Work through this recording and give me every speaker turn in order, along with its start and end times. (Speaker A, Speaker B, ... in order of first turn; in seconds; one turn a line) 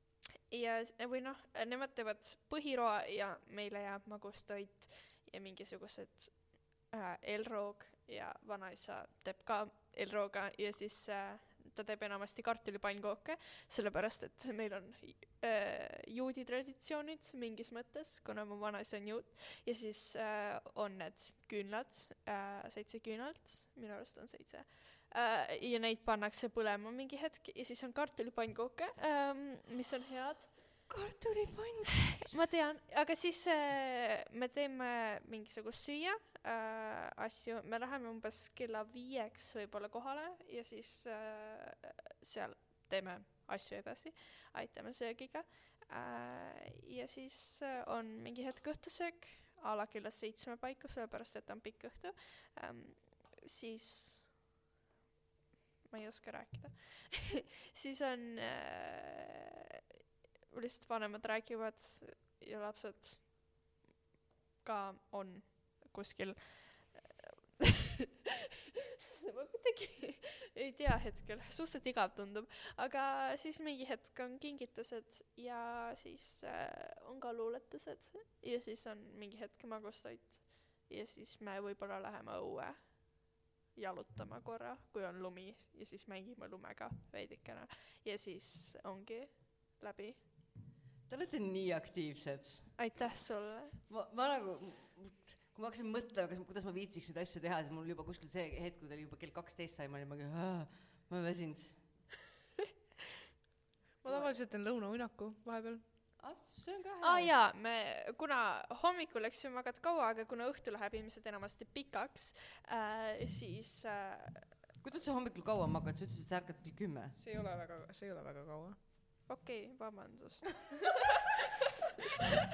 Speaker A: 0.5-30.9
Speaker B: 30.9-32.3
Speaker A: 32.3-54.3
Speaker A: 55.9-59.6
Speaker A: 60.5-63.3
Speaker A: 64.6-90.2
Speaker B: 91.1-92.7
Speaker A: 92.8-93.8
Speaker B: 93.9-101.8
Speaker C: 104.0-105.8
Speaker B: 104.0-104.3
Speaker B: 106.2-107.3
Speaker A: 107.0-114.5
Speaker B: 114.8-117.2
Speaker C: 117.2-118.8
Speaker A: 119.3-121.0